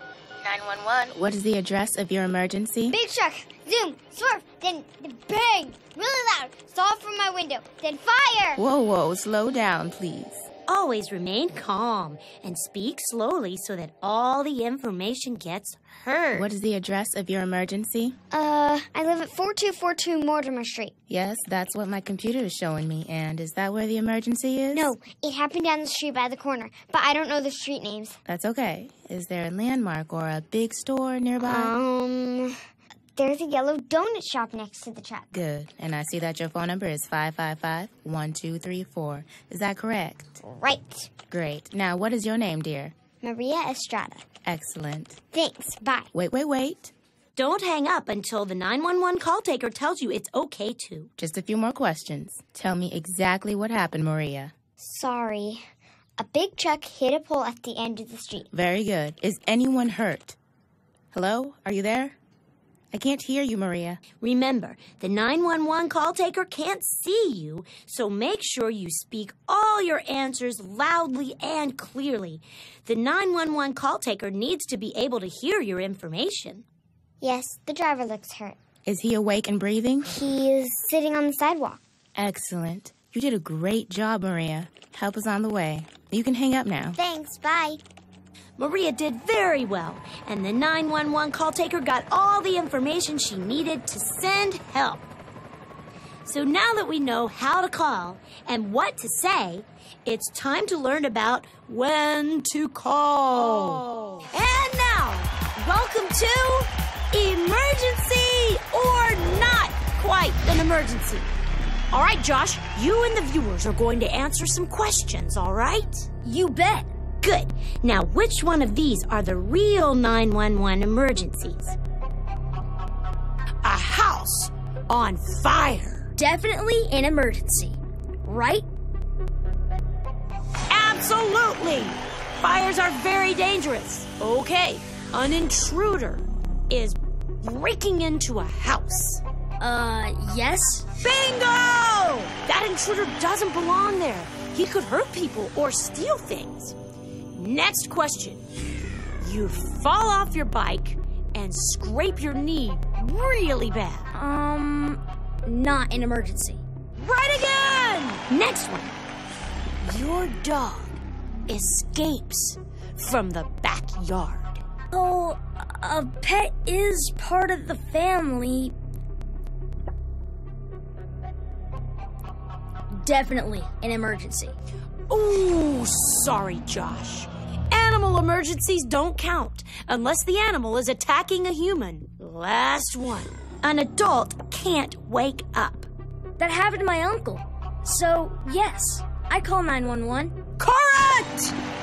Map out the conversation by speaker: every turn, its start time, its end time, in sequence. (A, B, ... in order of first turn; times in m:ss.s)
0:00.4-0:03.0 A
0:02.9-0:08.6 B
0:08.6-0:10.5 A
0:10.7-0:16.5 C
0:16.4-0:18.2 A
0:18.3-0:20.9 B
0:21.1-0:24.9 A
0:24.7-0:28.2 B
0:28.3-0:31.8 A
0:31.4-0:32.6 B
0:33.2-0:35.3 B
0:35.3-0:40.4 A
0:40.4-0:41.1 B
0:41.3-0:42.9 A
0:43.2-0:44.2 B
0:44.4-0:45.2 A
0:45.3-0:46.1 B
0:46.1-0:46.9 A
0:47.4-0:51.1 C
0:51.2-0:54.5 A
0:54.8-0:55.6 B
0:56.2-0:58.5 B
0:58.5-1:00.4 A
1:01.1-1:02.2 A
1:02.9-1:04.0 A
1:04.2-1:16.6 C
1:17.2-1:18.6 B
1:18.9-1:20.1 A
1:20.1-1:21.8 B
1:22.2-1:27.0 A
1:27.0-1:27.8 B
1:28.6-1:35.1 C
1:36.2-1:51.3 C
1:51.9-1:56.1 C
1:56.2-1:56.9 D
1:57.2-2:01.8 C
2:03.6-2:06.1 C
2:06.2-2:08.7 D
2:10.7-2:19.2 C
2:19.6-2:20.9 D
2:21.0-2:26.8 C
2:27.3-2:28.4 C
2:29.2-2:34.1 C
2:34.1-2:36.6 D
2:37.1-2:39.0 C
2:39.8-2:44.6 C
2:44.9-2:48.8 D
2:52.9-2:54.6 D
2:55.1-3:05.9 C
3:06.4-3:10.4 D
3:10.6-3:11.6 C